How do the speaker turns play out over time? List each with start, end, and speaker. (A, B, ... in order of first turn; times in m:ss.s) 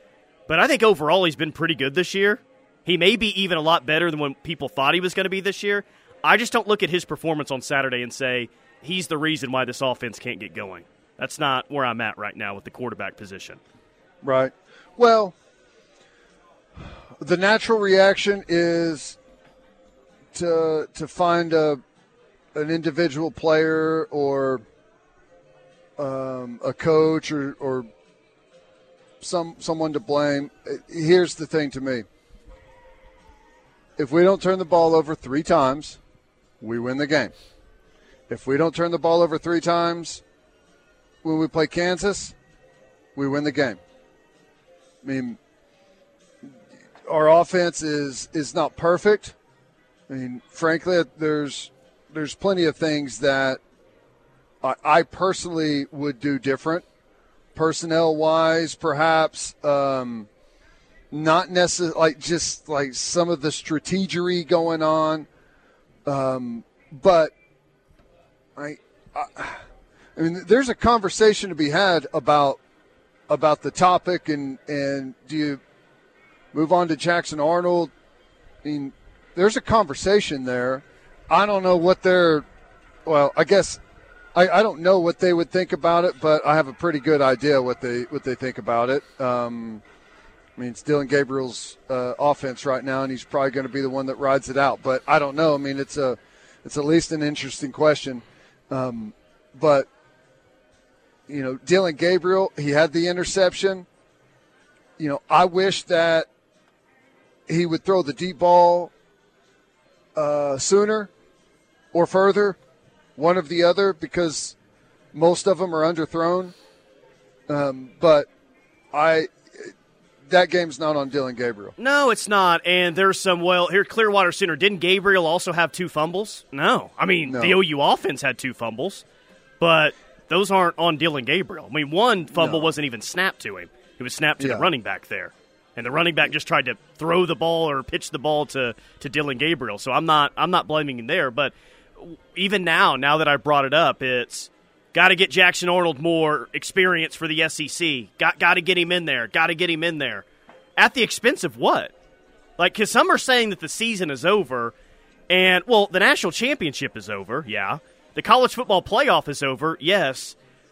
0:00.5-0:13.6 A
0:14.2-0:15.4 B
0:17.2-0:19.2 B
0:20.3-0:21.8 B
0:22.5-0:24.6 B
0:26.0-0:27.9 B
0:29.2-0:32.1 B
0:34.0-0:36.0 B
0:36.6-0:37.3 B
0:38.3-0:40.2 B
0:41.2-0:42.4 B
0:43.2-0:43.8 B
0:45.0-0:45.4 B
0:47.1-0:49.4 B
0:50.1-0:53.6 B
0:54.6-0:56.8 B
0:57.6-1:00.3 B
1:01.1-1:05.3 B
1:06.0-1:07.3 B
1:08.6-1:09.6 B
1:10.2-1:12.6 B
1:13.3-1:15.6 B
1:16.5-1:17.9 B
1:18.6-1:22.5 B
1:23.0-1:23.8 B
1:24.3-1:29.8 B
1:30.6-1:39.9 B
1:41.3-1:43.9 B
1:45.0-1:46.3 B
1:47.5-1:48.9 B
1:50.2-1:51.1 B
1:51.9-1:52.6 B
1:53.2-1:54.6 B
1:55.1-1:56.6 B
1:57.5-1:58.3 B
1:58.9-1:59.7 B
2:00.3-2:01.7 B
2:01.8-2:09.0 A
2:07.2-2:07.6 B
2:09.6-2:30.2 A
2:12.3-2:12.7 B
2:14.4-2:14.7 B
2:30.8-2:31.9 A
2:32.6-2:34.7 A
2:35.3-2:40.4 A